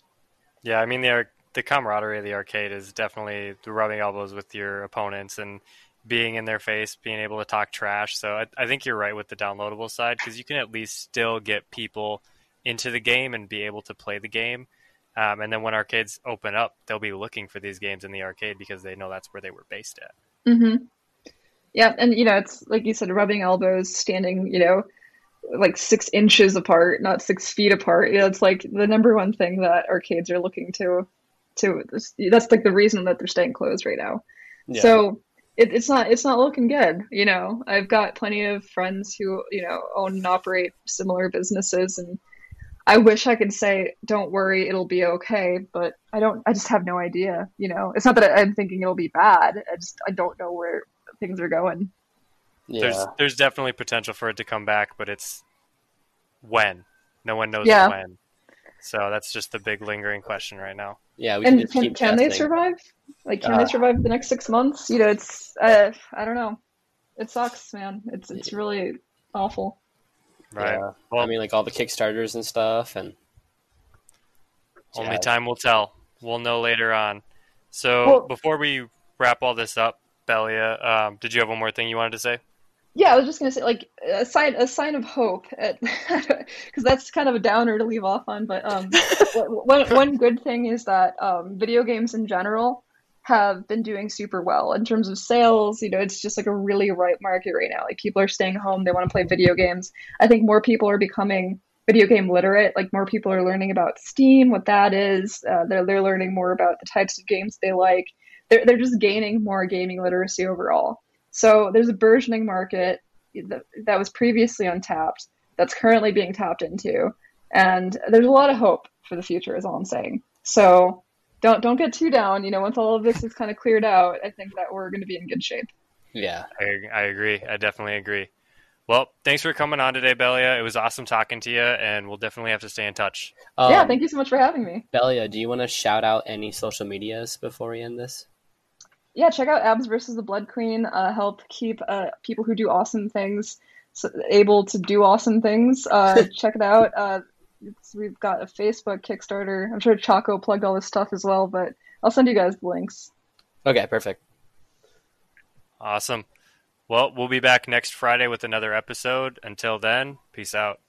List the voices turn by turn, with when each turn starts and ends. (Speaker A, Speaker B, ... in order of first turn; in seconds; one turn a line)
Speaker A: 0.6-20.1
Speaker B: 20.4-20.9
Speaker B: 21.7-24.9
Speaker B: 25.5-34.2
Speaker C: 34.7-35.0
Speaker B: 34.7-42.2
Speaker B: 42.9-51.9
Speaker C: 52.7-53.1
Speaker A: 52.8-55.4
Speaker A: 56.4-58.2
Speaker B: 57.6-58.0
Speaker A: 58.8-61.0
Speaker C: 61.2-62.5
Speaker B: 61.4-66.6
Speaker C: 63.4-63.8
Speaker B: 67.2-69.8
Speaker A: 70.5-71.3
Speaker C: 70.6-73.1
Speaker A: 74.9-82.4
Speaker C: 74.9-75.2
Speaker B: 82.9-125.7
Speaker C: 126.1-126.5
Speaker A: 126.6-128.3
Speaker A: 128.9-133.4
Speaker C: 133.6-134.0
Speaker B: 133.7-134.8
Speaker C: 134.9-138.2
Speaker B: 139.1-153.1
Speaker C: 153.6-154.2
Speaker A: 155.8-156.2
Speaker A: 156.9-160.8